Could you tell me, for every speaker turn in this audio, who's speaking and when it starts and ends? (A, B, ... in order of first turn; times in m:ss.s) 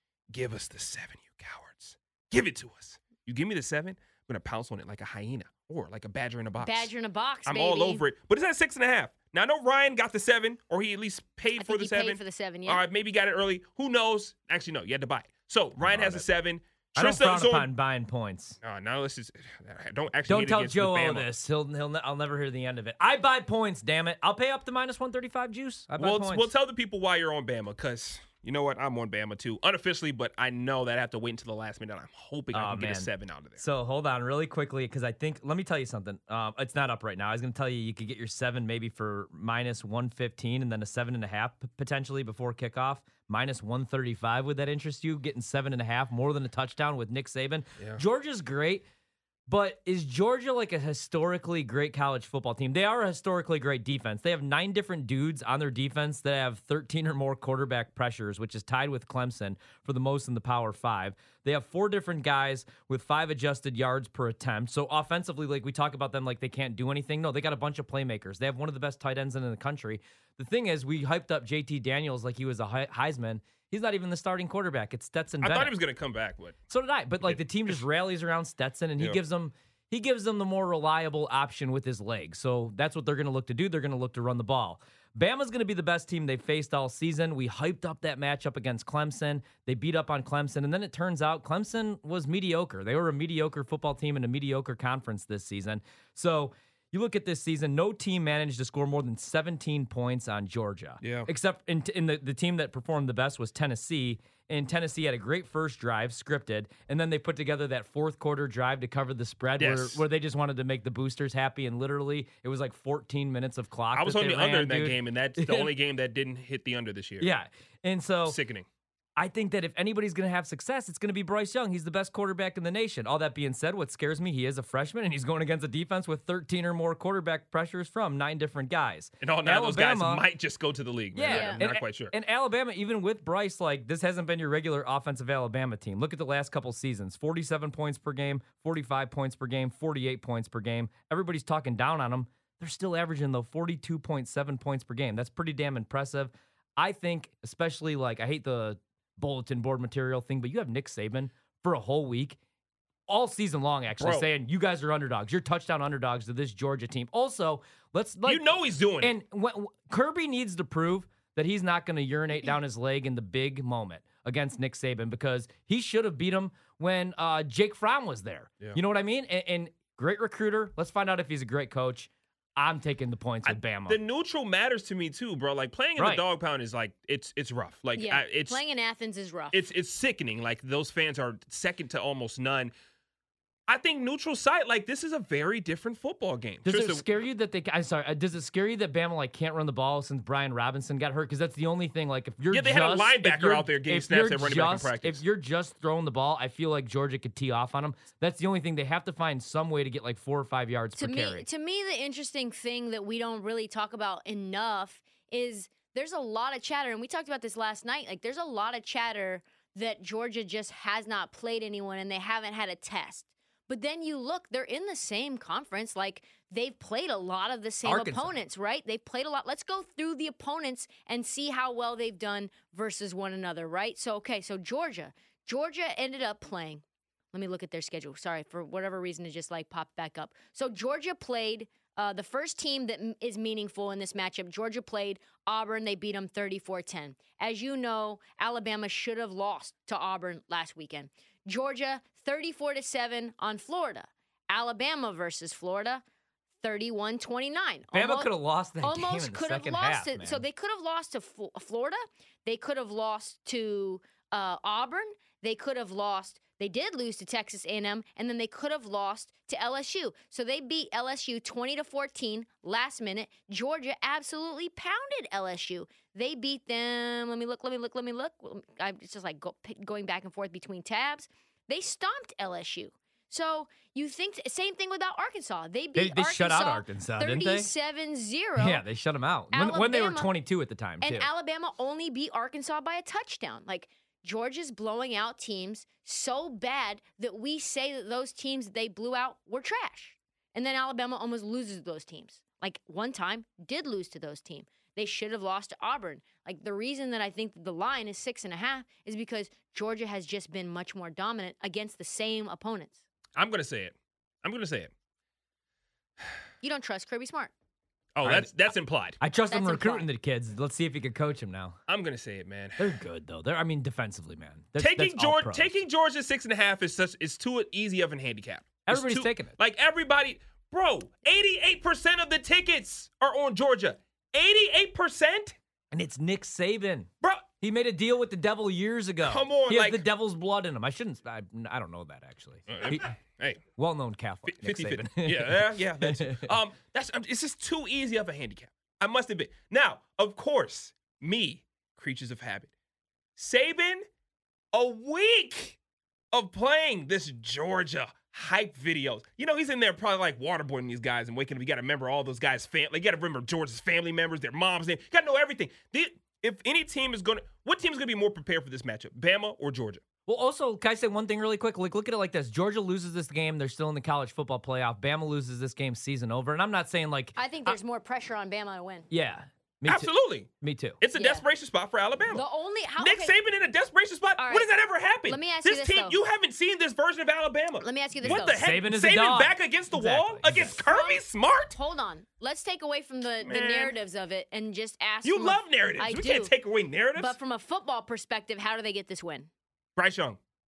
0:00.3-0:06.9 A
0:06.6-0:08.0 B
0:07.4-0:17.7 A
0:11.6-0:12.8 B
0:15.8-0:16.2 C
0:16.9-0:18.6 C
0:18.6-0:21.3 A
0:20.3-0:26.5 C
0:26.0-0:33.6 A
0:32.5-0:48.8 C
0:49.5-1:15.7 C
1:15.4-1:16.6 A
1:16.7-1:55.7 C
1:17.2-1:17.8 A
1:41.0-1:41.3 A
1:49.6-1:50.0 A
1:53.9-1:57.3 A
1:57.2-1:58.4 C
1:58.2-1:58.7 A
1:59.2-2:10.2 C
2:09.2-2:12.1 A
2:11.1-2:32.4 C
2:11.2-2:11.6 B
2:33.1-2:54.0 C
2:34.0-2:34.3 A
2:38.2-2:39.2 A
2:53.4-2:58.6 A
2:56.0-2:56.2 C
2:58.0-2:59.6 B
2:59.5-3:02.7 A
3:03.7-3:07.0 A
3:06.6-3:21.4 C
3:12.5-3:15.2 A
3:21.0-3:46.8 B
3:37.8-3:38.3 C
3:47.3-4:06.0 B
4:06.6-4:38.8 B
4:07.9-4:10.4 C
4:35.9-4:37.7 C
4:38.6-4:41.3 C
4:39.5-4:40.3 B
4:41.0-5:03.0 B
5:03.4-5:04.9 A
5:06.6-5:07.5 B
5:08.2-5:09.2 A
5:08.2-5:08.5 C
5:09.2-5:11.8 C
5:09.5-5:10.1 B
5:11.9-5:13.0 A
5:12.8-5:15.8 C
5:14.8-5:25.6 A
5:18.8-5:19.5 C
5:25.9-5:33.1 C
5:29.2-5:30.0 A
5:32.7-5:33.6 A
5:33.8-5:36.5 C
5:34.5-5:42.7 A
5:43.4-5:44.0 A
5:44.7-5:45.8 A
5:46.3-6:00.0 A
6:00.2-6:07.8 C
6:07.4-6:09.1 B
6:09.1-6:11.0 C
6:09.8-6:10.5 A
6:11.0-6:12.4 A
6:11.1-6:11.4 B
6:12.3-6:13.4 B
6:13.0-6:21.8 A
6:14.4-6:14.7 B
6:15.2-6:16.2 B
6:17.8-6:18.6 B
6:18.2-6:20.8 C
6:20.7-6:26.5 B
6:23.4-6:24.0 A
6:25.2-6:27.4 A
6:27.1-6:29.5 B
6:30.0-6:30.4 A